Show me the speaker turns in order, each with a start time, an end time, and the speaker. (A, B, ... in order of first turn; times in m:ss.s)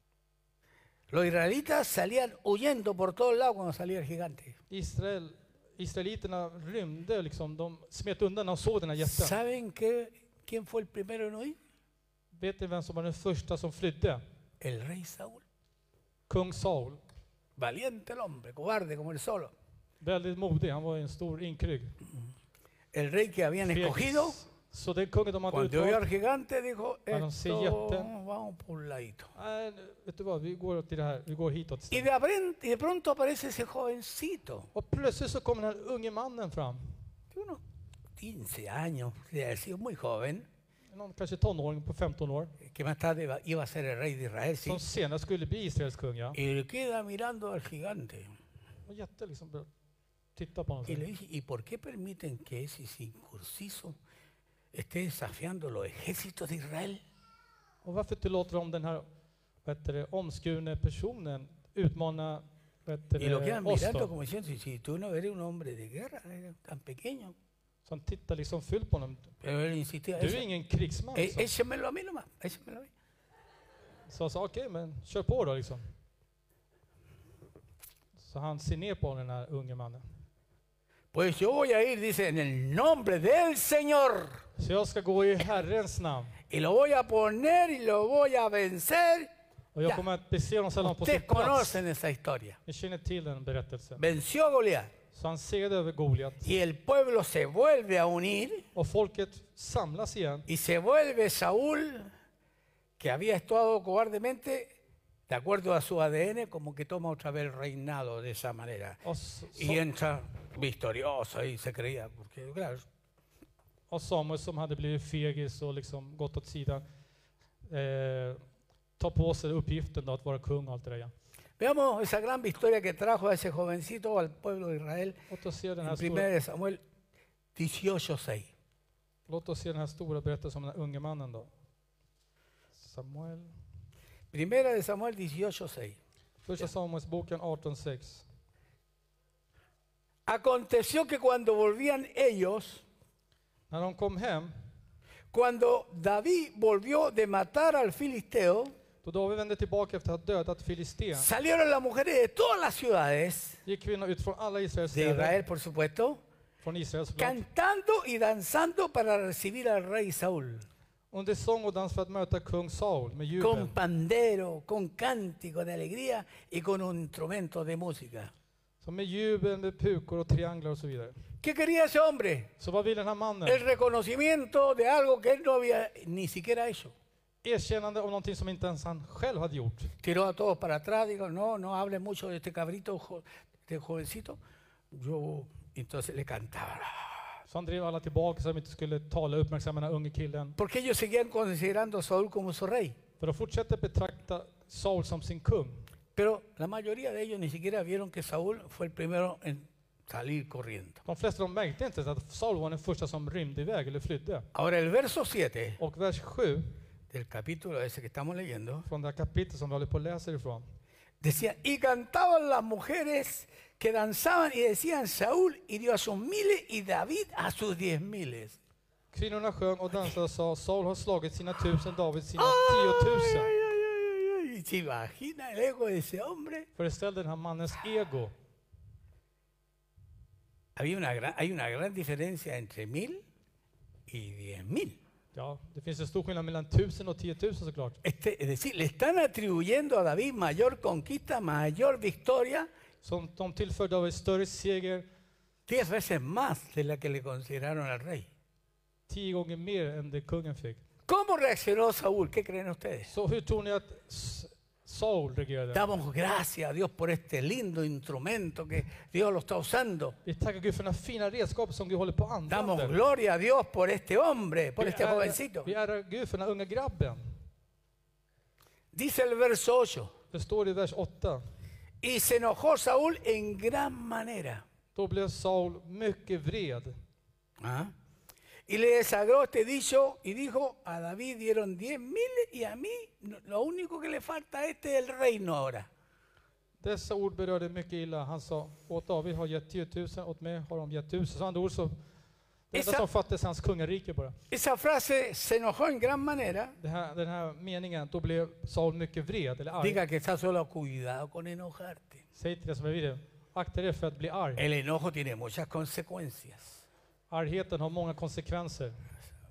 0:01.1-0:04.6 A
0:04.7-0:09.3 B
0:09.0-0:11.6 A
0:12.3-0:14.2 B
0:14.6-0:15.4 A
0:16.3-0:17.0 B
0:17.6-0:19.5 A
0:20.0-0:22.0 B
0:22.9-0:24.4 A
0:23.6-0:26.0 B
0:25.5-0:29.3 A
0:27.1-0:28.1 B
0:29.3-0:32.1 B
0:31.9-0:34.7 A
0:34.7-0:36.9 B
0:37.3-0:37.6 A
0:38.2-0:40.5 A
0:40.9-0:42.5 B
0:42.6-0:44.8 A
0:44.6-0:46.4 B
0:46.3-0:48.3 A
0:48.8-0:49.7 B
0:50.4-0:51.0 B
0:50.9-0:54.0 A
0:54.7-0:57.0 A
0:57.8-0:59.0 B
0:59.6-1:04.1 B
1:03.2-1:07.3 A
1:07.8-1:09.3 B
1:09.4-1:10.4 A
1:10.2-1:11.5 B
1:11.1-1:12.9 A
1:14.1-1:15.8 B
1:18.2-1:20.0 B
1:21.1-1:24.4 A
1:24.6-1:26.4 B
1:26.5-1:29.3 A
1:29.7-1:31.8 B
1:30.8-1:32.6 A
1:32.6-1:34.0 B
1:34.0-1:34.9 A
1:35.1-1:36.5 B
1:36.4-1:38.7 A
1:38.7-1:40.5 B
1:40.5-1:42.1 A
1:43.0-1:44.7 A
1:45.3-1:49.0 A
1:49.0-1:49.8 B
1:49.5-1:52.8 A
1:53.9-1:56.8 B
1:57.6-1:58.4 B
1:59.0-2:01.1 B
2:01.6-2:05.2 A
2:05.3-2:06.3 B
2:05.8-2:06.8 A
2:07.5-2:08.5 A
2:09.3-2:11.5 B
2:12.7-2:13.5 B
2:14.3-2:16.0 A
2:16.4-2:18.2 B
2:20.3-2:22.8 A
2:23.7-2:24.5 B
2:25.3-2:28.7 A
2:29.0-2:31.3 B
2:31.1-2:33.6 A
2:33.6-2:35.4 B
2:34.9-2:36.2 A
2:36.6-2:37.4 B
2:37.2-2:40.6 A
2:41.1-2:43.7 B
2:43.4-2:48.3 A
2:48.8-2:51.1 B
2:51.4-2:52.5 A
2:52.6-2:53.6 B
2:53.4-2:56.9 A
2:57.4-2:59.9 B
3:00.0-3:04.4 A
3:04.9-3:07.2 A
3:07.5-3:10.6 B
3:10.6-3:13.0 A
3:13.2-3:15.9 B
3:16.2-3:21.0 A
3:21.0-3:24.4 B
3:24.5-3:25.8 A
3:25.8-3:26.7 B
3:27.1-3:28.9 A
3:28.9-3:30.6 B
3:31.2-3:38.6 A
3:39.1-3:43.5 B
3:42.4-3:46.7 A
3:46.8-3:48.3 B
3:50.8-3:53.2 A
3:54.1-3:55.0 A
3:55.3-3:58.0 B
3:58.0-4:02.7 A
4:03.0-4:05.1 B
4:05.7-4:08.3 A
4:09.1-4:10.8 B
4:11.1-4:13.1 A
4:13.1-4:15.8 B
4:15.7-4:20.2 A
4:20.2-4:23.0 B
4:22.5-4:25.7 A
4:24.8-4:27.2 B
4:28.9-4:30.1 A
4:30.3-4:31.4 B
4:32.0-4:34.6 A
4:34.9-4:36.9 B
4:37.6-4:37.9 A
4:38.7-4:45.9 A
4:46.8-4:51.9 B
4:52.7-4:54.4 B
4:52.7-4:53.1 A
4:54.5-4:56.8 A
4:56.8-5:00.0 B
4:59.8-5:02.2 A
5:02.3-5:04.6 B
5:04.6-5:06.8 A
5:07.3-5:08.9 B